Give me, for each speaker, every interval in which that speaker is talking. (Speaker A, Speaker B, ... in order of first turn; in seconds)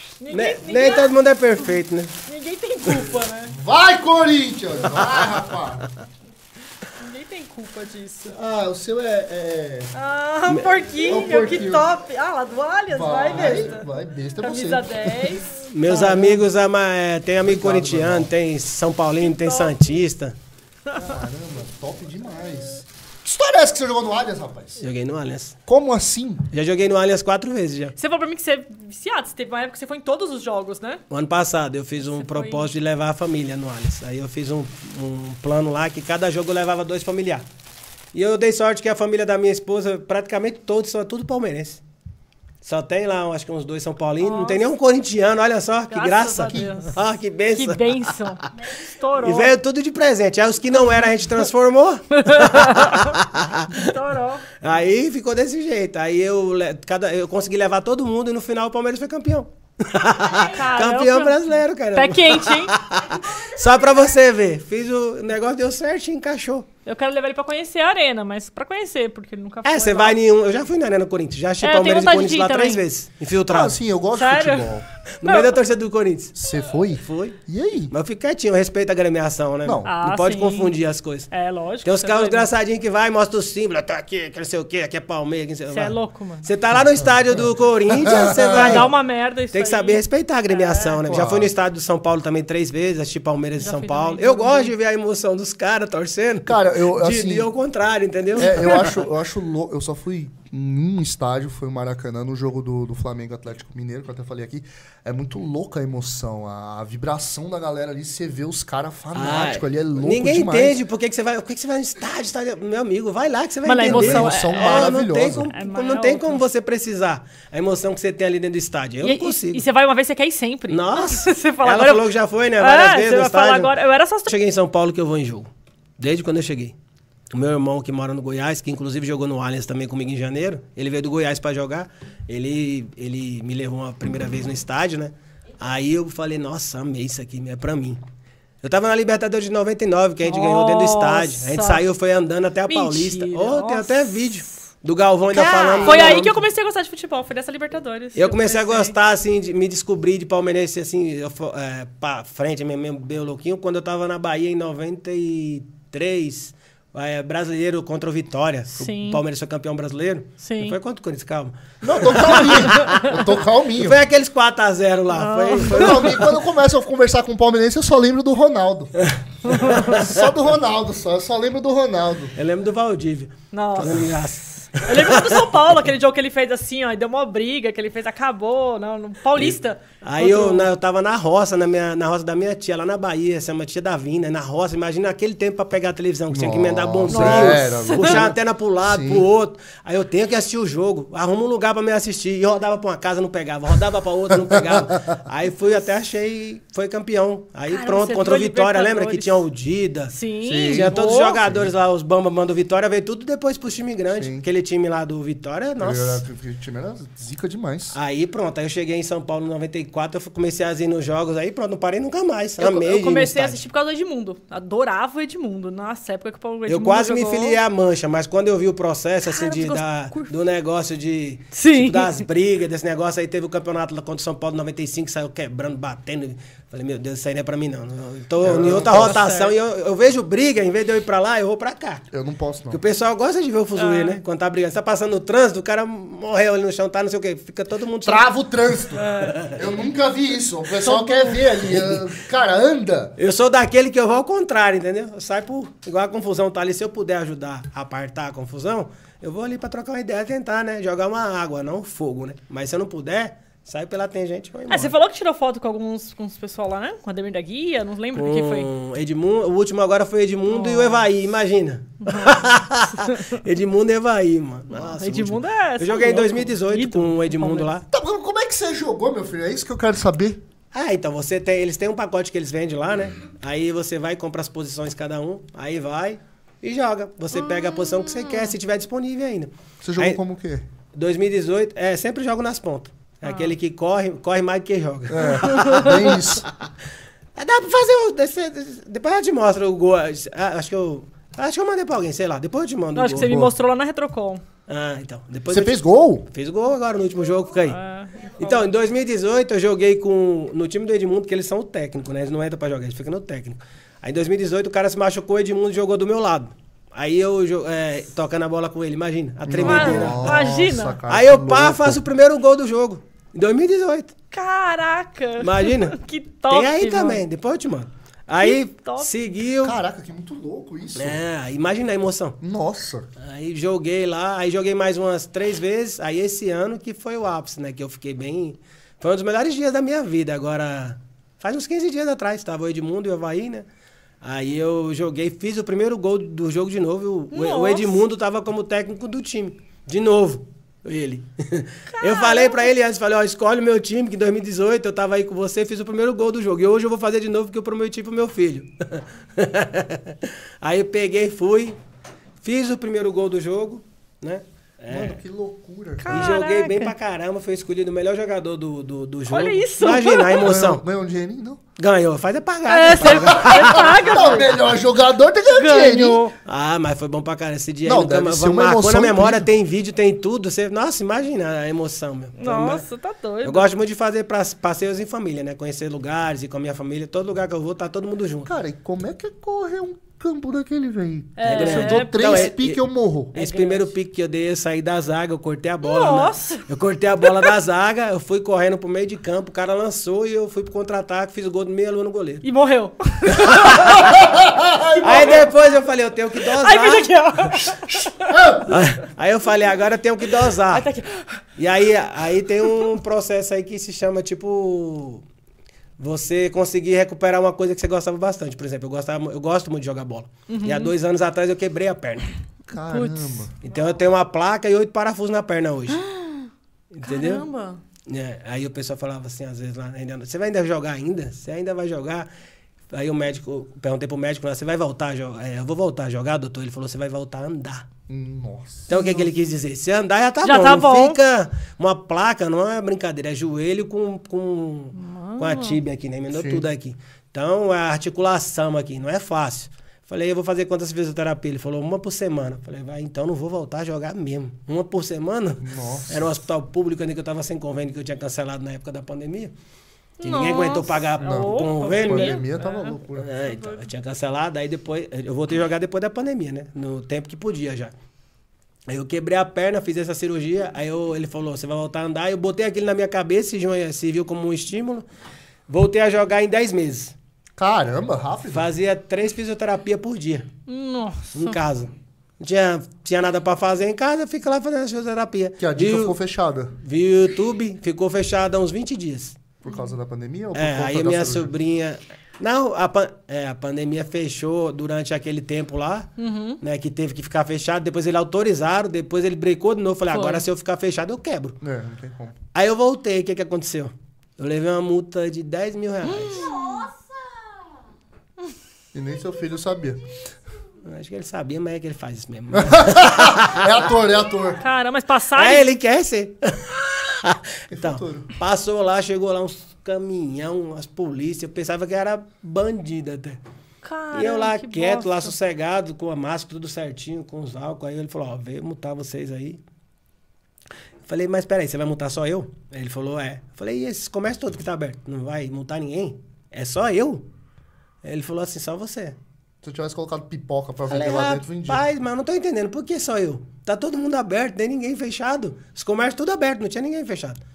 Speaker A: 0.2-1.1, 2.2-3.5, 7.0-8.3, 9.9-13.9, 14.4-16.3, 19.2-19.8, 28.0-31.0, 32.0-32.7, 44.2-44.7, 45.9-47.0, 47.5-49.5, 52.2-53.2, 53.7-54.5, 60.4-62.8, 66.8-70.2, 71.6-72.8, 74.1-75.6, 79.8-80.7, 81.3-82.5, 85.7-86.5, 88.4-91.0, 93.6-94.7, 98.3-98.9, 113.6-116.4, 119.0-124.3, 140.2-141.8, 142.7-144.5, 145.3-148.9, 158.7-159.2, 160.4-160.8, 165.1-166.2, 169.5-169.8, 173.5-180.7, 187.1-188.2, 197.7-199.4, 200.1-201.4, 212.6-217.6, 219.2-220.3, 221.5-222.2, 228.5-229.5, 233.8-234.2, 238.9-239.4, 240.8-241.5, 254.7-258.7, 260.5-261.0, 262.0-263.3, 264.7-267.7, 277.3-278.5, 283.2-283.5, 285.5-286.0, 292.9-294.4, 297.6-298.5, 309.6-311.0, 314.3-317.2, 318.4-319.1, 337.3-338.0, 341.9-342.7, 356.0-356.9, 359.3-360.5, 362.7-364.6, 365.5-366.3, 372.4-373.7, 381.4-382.5, 383.4-383.9, 385.8-386.6, 387.2-387.5, 392.4-394.2, 394.9-395.4, 396.4-398.5, 400.5-401.4, 410.5-410.9, 412.8-413.4, 415.9-416.5, 417.0-417.8, 430.4-431.2, 434.9-435.8, 450.2-453.9, 470.7-471.6, 479.6-479.9, 486.2-486.6, 490.1-490.4, 496.1-496.9, 504.6-505.7, 513.8-515.3
Speaker B: 0.3-2.2, 5.0-5.3, 10.5-10.9, 15.5-20.4, 24.8-25.6, 26.5-28.0, 31.1-37.4, 38.1-41.8, 42.6-48.4, 49.2-54.0, 54.6-66.7, 69.6-73.8, 75.2-76.3, 77.0-77.4, 77.9-81.3, 81.8-88.9, 89.5-98.9, 109.1-119.6, 120.7-123.7, 124.3-126.7, 127.3-138.0, 138.6-146.4, 148.2-166.3, 169.0-170.2, 172.3-175.5, 179.4-206.2, 207.9-213.6, 216.7-232.0, 232.7-238.3, 239.2-239.6, 243.2-254.9, 258.1-267.9, 270.7-280.2, 280.9-286.4, 287.4-293.3, 294.7-297.8, 298.4-310.5, 311.1-314.1, 315.4-316.0, 316.5-319.8, 320.9-322.4, 323.2-333.6, 334.2-351.8, 352.4-355.2, 356.1-360.8, 361.8-364.1, 366.4-372.8, 373.4-378.5, 381.4-392.4, 393.3-394.1, 395.0-397.1, 398.6-400.9, 401.6-405.2, 406.0-412.3, 413.6-416.0, 416.9-417.4, 418.1-422.3, 422.9-427.9, 428.9-449.5, 450.2-452.4, 453.1-457.9, 458.9-465.1, 465.7-467.1, 468.5-470.5, 471.3-476.1, 476.8-479.4, 480.5-491.6, 492.5-496.6, 500.8-503.7, 505.3-513.4, 514.1-519.6, 521.1-527.2, 528.0-529.2, 530.9-537.4
Speaker C: 3.5-5.9, 8.2-9.9, 11.0-11.9, 12.9-16.4, 17.4-18.3, 20.9-24.8, 25.6-26.5, 73.5-74.8, 76.3-77.9, 79.6-79.9, 87.0-87.4, 88.0-88.9, 91.0-91.5, 96.4-97.5, 98.3-110.8, 113.8-115.5, 161.8-164.0, 165.7-172.3, 186.3-189.2, 194.5-194.8, 200.4-201.7, 204.1-204.4, 205.8-207.9, 228.4-229.2, 232.1-232.8, 238.0-243.2, 264.9-265.4, 267.9-270.4, 279.8-280.6, 285.1-286.4, 293.2-293.5, 295.5-296.3, 309.4-312.0, 319.6-321.2, 322.4-323.1, 354.9-356.4, 360.3-361.6, 363.0-366.2, 367.8-369.5, 378.4-383.4, 394.0-395.4, 397.9-398.6, 412.7-413.5, 428.1-429.1, 436.3-436.6, 445.6-446.4, 451.2-453.3, 467.6-468.7, 475.6-476.8, 479.6-481.5, 491.6-492.4, 498.9-500.0, 502.5-504.6, 507.7-508.3, 529.6-531.8